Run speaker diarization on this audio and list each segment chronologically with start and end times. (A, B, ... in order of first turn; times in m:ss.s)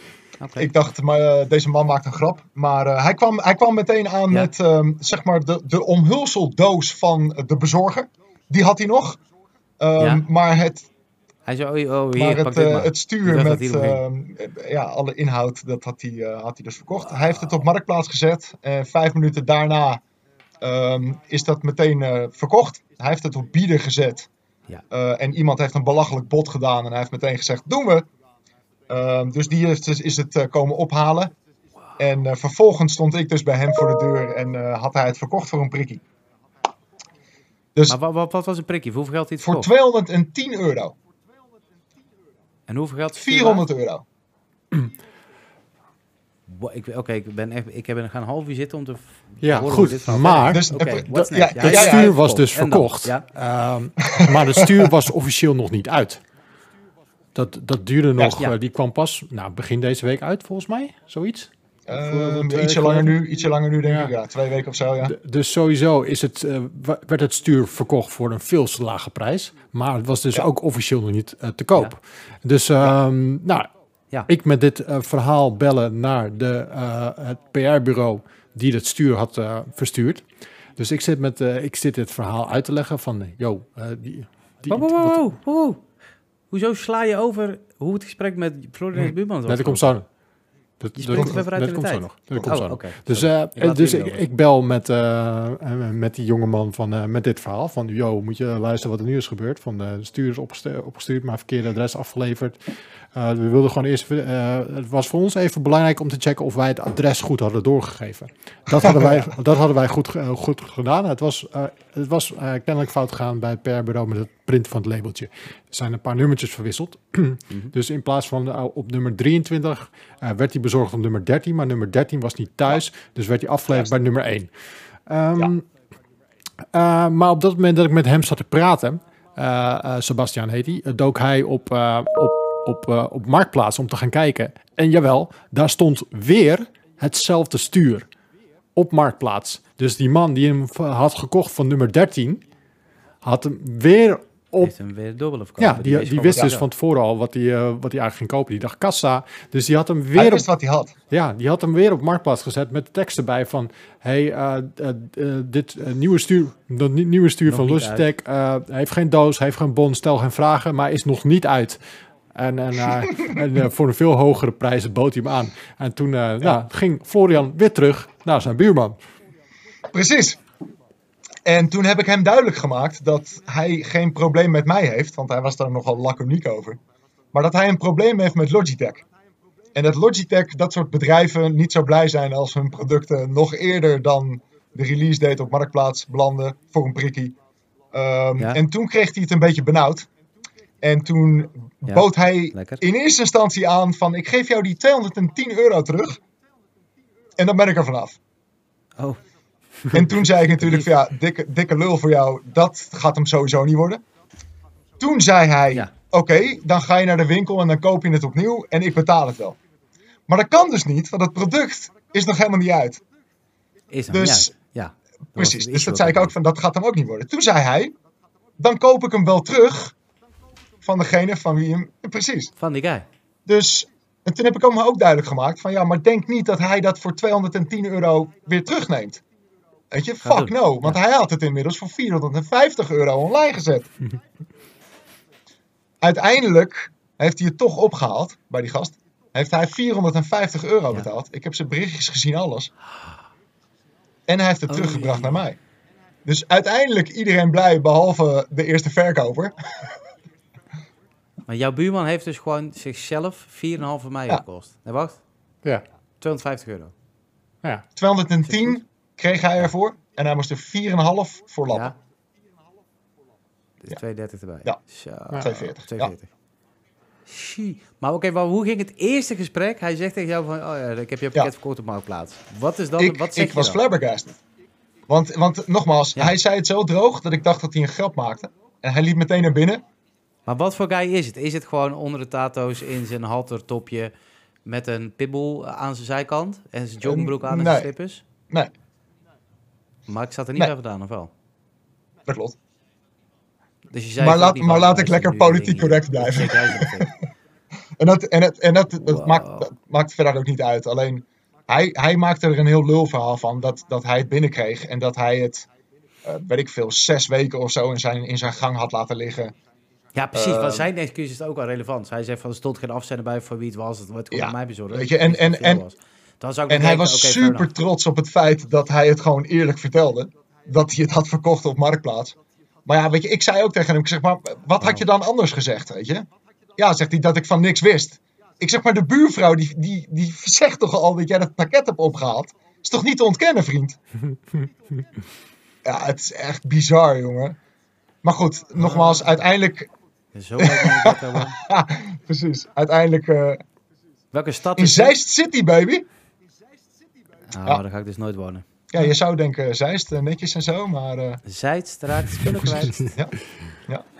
0:00.4-0:00.7 A
0:00.6-0:09.2 B
0:09.8-0:10.9 B
0:11.4-0:14.0 A
0:12.1-0:20.0 B
0:20.6-0:24.3 B
0:24.9-0:28.1 B
0:28.9-0:31.3 B
0:32.0-0:36.0 B
0:37.9-0:39.7 A
0:39.4-0:41.0 B
0:42.7-0:43.6 A
0:43.1-0:44.0 B
0:46.5-0:53.2 A
0:49.4-0:56.2 C
0:50.5-0:52.2 B
0:54.0-0:54.9 B
0:57.3-1:03.3 C
1:01.9-1:05.1 B
1:03.8-1:04.1 C
1:05.0-1:13.7 C
1:14.3-1:20.2 C
1:20.8-1:25.2 C
1:24.7-1:25.8 A
1:26.5-1:29.9 A
1:28.9-1:30.1 C
1:30.8-2:04.5 C
1:31.0-1:34.2 A
1:32.3-1:32.6 B
1:48.8-1:49.3 B
2:05.0-2:05.7 C
2:06.7-2:18.1 C
2:18.8-2:22.4 C
2:23.2-2:24.7 C
2:24.6-2:26.6 A
2:25.6-2:30.4 C
2:30.1-2:30.9 B
2:31.1-2:41.8 C
2:37.5-2:38.0 A
2:42.3-2:49.0 C
2:49.9-2:50.4 B
2:51.4-2:56.8 B
2:57.3-2:59.0 B
2:59.7-3:07.4 B
3:07.9-3:10.1 B
3:10.8-3:16.2 B
3:11.8-3:12.8 A
3:17.4-3:18.2 B
3:19.9-3:24.0 B
3:20.5-3:20.9 A
3:25.0-3:29.6 B
3:30.3-3:33.0 B
3:33.9-3:36.3 A
3:34.1-3:34.5 B
3:35.3-3:37.9 B
3:38.6-3:39.9 B
3:40.8-3:42.5 B
3:42.6-3:43.0 A
3:43.4-3:49.2 B
3:49.9-3:53.9 B
3:50.2-3:51.0 A
3:56.0-4:02.7 B
4:04.3-4:05.6 B
4:04.7-4:05.3 A
4:06.2-4:10.0 B
4:11.5-4:15.2 A
4:16.2-4:16.9 A
4:18.0-4:21.9 B
4:23.8-4:26.3 A
4:25.4-4:26.1 B
4:27.3-4:33.8 A
4:33.0-4:34.4 B
4:35.1-4:39.8 B
4:40.5-4:44.1 A
4:44.6-4:48.2 A
4:47.0-4:47.9 B
4:50.1-4:51.3 A
4:52.2-4:52.6 B
4:53.9-4:57.1 A
4:54.2-4:57.1 B
4:58.0-5:05.7 B
4:59.0-4:59.7 A
5:06.2-5:09.5 B
5:10.1-5:17.7 A
5:10.3-5:10.9 B
5:14.3-5:15.8 B
5:16.7-5:34.0 B
5:35.8-5:37.6 B
5:38.2-5:39.9 B
5:38.8-5:39.3 A
5:40.3-5:41.6 A
5:40.6-5:43.6 B
5:44.3-5:45.1 A
5:44.8-5:46.1 B
5:47.5-5:48.6 A
5:48.9-5:51.4 B
5:51.4-5:53.1 A
5:53.1-5:54.1 B